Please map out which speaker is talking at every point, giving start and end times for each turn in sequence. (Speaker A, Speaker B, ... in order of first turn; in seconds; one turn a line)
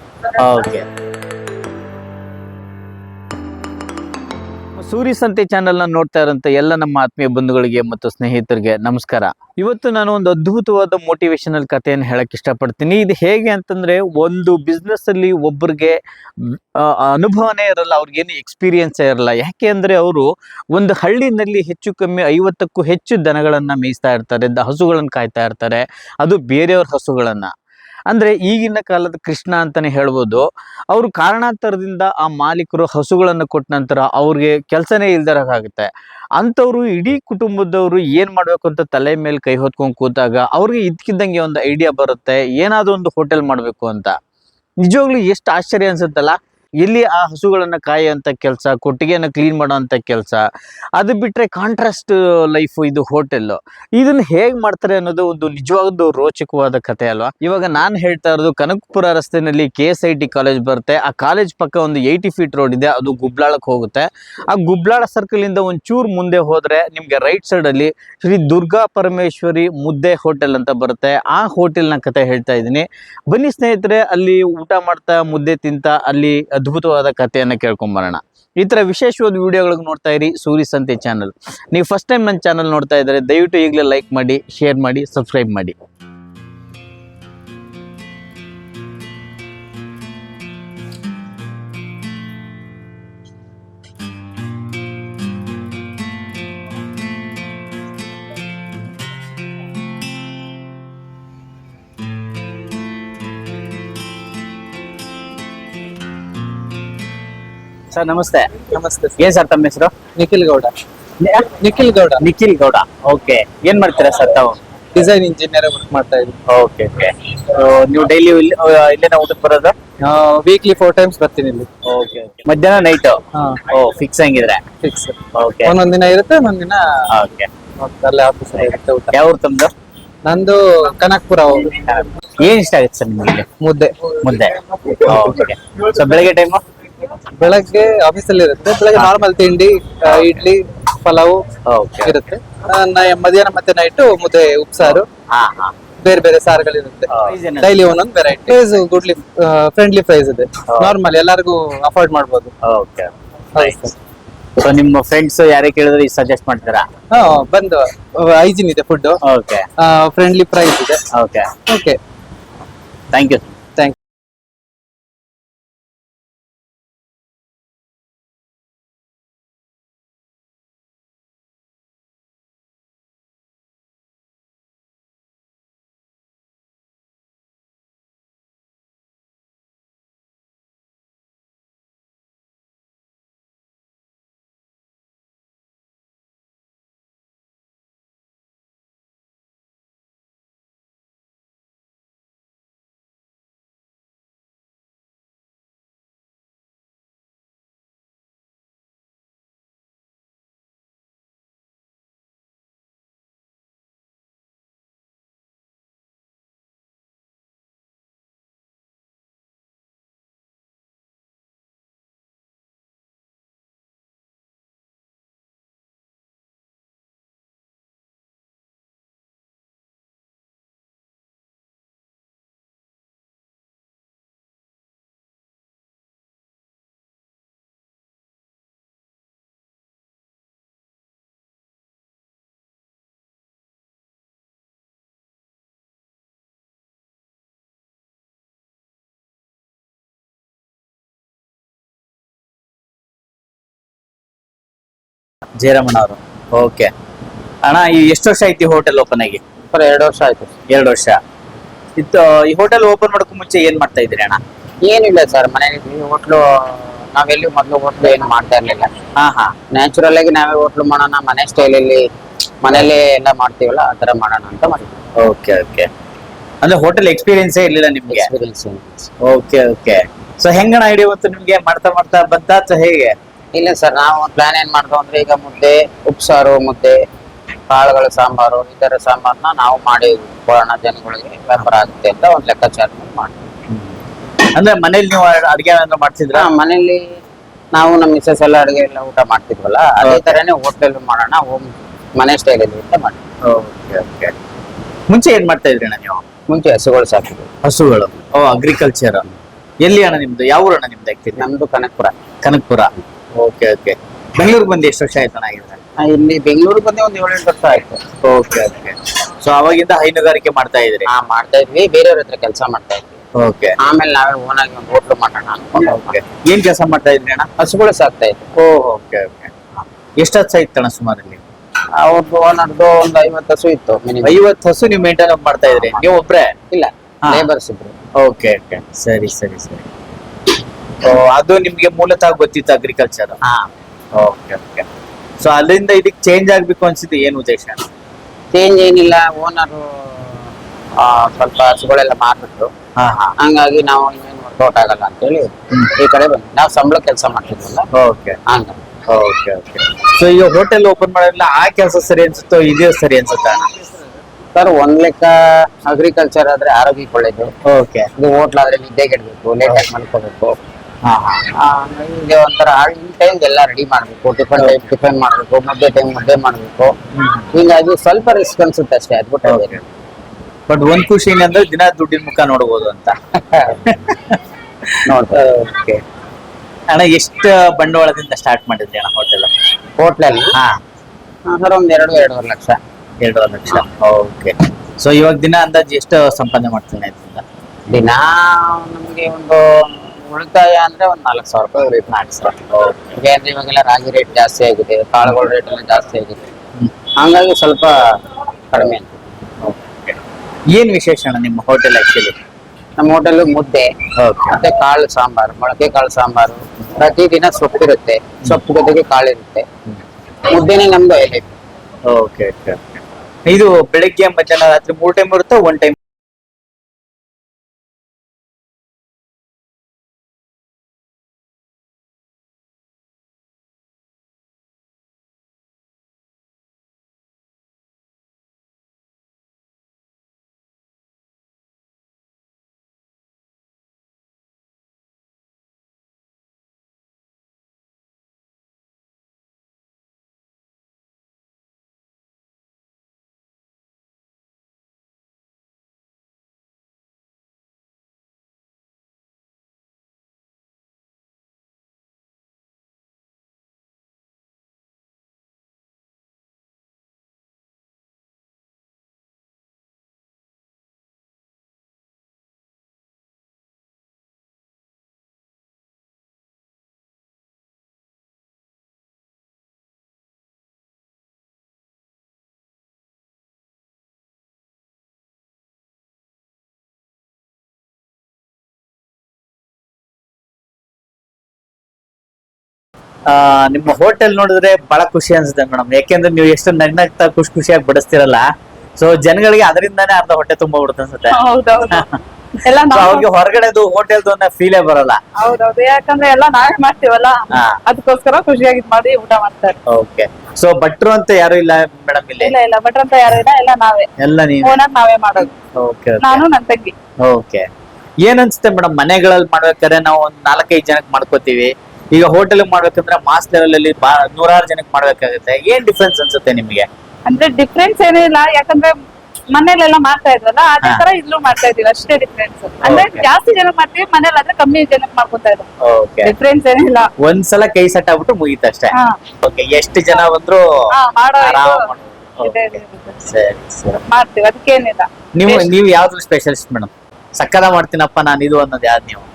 Speaker A: 0.4-0.9
Speaker A: 4.8-27.5
Speaker A: 28.1-44.2
Speaker A: 44.8-85.8
Speaker A: 107.9-109.9
Speaker B: 108.6-109.2
Speaker B: 110.2-110.7
Speaker A: 111.2-111.6
Speaker B: 111.5-112.3
Speaker A: 112.2-114.6
Speaker B: 115.0-116.4
Speaker A: 116.5-119.8
Speaker B: 120.0-121.7
Speaker A: 121.8-124.6
Speaker B: 124.8-127.1
Speaker A: 125.3-125.7
Speaker A: 127.1-127.5
Speaker B: 127.8-129.2
Speaker A: 128.5-129.7
Speaker B: 130.3-131.7
Speaker A: 131.8-133.5
Speaker B: 133.6-134.2
Speaker A: 134.2-136.6
Speaker B: 137.4-141.4
Speaker A: 140.1-140.4
Speaker A: 141.7-142.2
Speaker B: 142.0-145.1
Speaker A: 145.3-145.8
Speaker B: 146.0-152.5
Speaker A: 147.1-147.9
Speaker A: 148.5-148.8
Speaker A: 150.7-151.0
Speaker A: 152.6-153.9
Speaker B: 153.6-153.9
Speaker A: 154.6-156.9
Speaker B: 157.1-159.2
Speaker A: 159.2-159.7
Speaker B: 159.8-161.0
Speaker A: 161.1-161.5
Speaker B: 161.7-162.0
Speaker A: 163.1-163.5
Speaker A: 245.6-246.9
Speaker A: 247.6-249.4
Speaker C: 249.7-250.5
Speaker A: 250.7-251.2
Speaker A: 252.0-254.4
Speaker C: 254.8-258.9
Speaker A: 259.2-259.5
Speaker C: 259.7-262.1
Speaker C: 262.6-265.0
Speaker A: 265.2-265.9
Speaker A: 266.6-268.3
Speaker C: 268.1-269.1
Speaker A: 269.2-273.1
Speaker C: 273.6-277.0
Speaker C: 277.7-283.5
Speaker A: 283.7-284.0
Speaker A: 284.6-286.5
Speaker C: 286.3-287.0
Speaker C: 287.7-293.2
Speaker A: 290.0-290.4
Speaker A: 293.4-294.3
Speaker A: 295.1-296.2
Speaker C: 296.5-297.5
Speaker A: 297.6-299.3
Speaker A: 299.8-301.5
Speaker C: 301.4-302.1
Speaker A: 302.4-305.8
Speaker C: 306.0-308.0
Speaker A: 308.2-311.1
Speaker C: 311.1-313.2
Speaker A: 313.4-313.8
Speaker C: 313.8-316.1
Speaker A: 315.8-317.5
Speaker C: 317.6-318.5
Speaker A: 318.6-321.4
Speaker C: 322.0-324.4
Speaker A: 324.2-326.5
Speaker C: 325.7-326.1
Speaker C: 326.7-327.9
Speaker A: 328.2-329.9
Speaker A: 331.0-333.4
Speaker C: 333.4-333.7
Speaker A: 334.1-334.9
Speaker A: 335.4-337.9
Speaker C: 338.5-342.7
Speaker A: 343.0-343.4
Speaker C: 343.4-347.9
Speaker A: 347.9-348.4
Speaker C: 348.5-348.8
Speaker A: 349.1-353.7
Speaker C: 354.5-357.5
Speaker A: 357.7-358.1
Speaker C: 358.2-360.6
Speaker A: 361.1-361.4
Speaker C: 361.6-366.9
Speaker A: 364.6-364.8
Speaker A: 367.1-367.5
Speaker C: 367.5-369.9
Speaker A: 369.5-369.8
Speaker A: 370.7-376.0
Speaker C: 373.5-373.9
Speaker C: 375.1-375.4
Speaker A: 376.9-379.5
Speaker C: 380.0-380.6
Speaker C: 381.5-382.8
Speaker A: 383.2-387.4
Speaker C: 387.9-392.2
Speaker A: 392.1-393.2
Speaker C: 393.2-396.5
Speaker C: 397.2-398.0
Speaker C: 398.7-399.2
Speaker A: 399.6-400.2
Speaker A: 400.7-402.4
Speaker C: 403.0-403.9
Speaker A: 404.2-404.6
Speaker C: 404.5-409.7
Speaker C: 410.5-411.5
Speaker A: 412.1-416.0
Speaker A: 483.3-488.4
Speaker A: 489.0-491.4
Speaker D: 491.3-492.1
Speaker A: 491.9-492.2
Speaker D: 492.6-493.3
Speaker A: 492.9-495.2
Speaker D: 495.4-499.8
Speaker A: 497.5-497.8
Speaker A: 499.9-502.5
Speaker D: 502.4-504.1
Speaker A: 504.2-504.8
Speaker D: 504.6-505.5
Speaker A: 505.8-506.4
Speaker D: 506.2-506.9
Speaker A: 507.2-507.7
Speaker A: 508.2-516.9
Speaker D: 517.3-519.0
Speaker D: 519.5-525.7
Speaker A: 522.8-523.3
Speaker A: 525.8-526.3
Speaker D: 526.2-527.1
Speaker A: 527.2-530.6
Speaker D: 530.9-531.9
Speaker A: 531.4-534.0
Speaker D: 532.4-533.3
Speaker D: 534.1-535.7
Speaker A: 535.4-539.3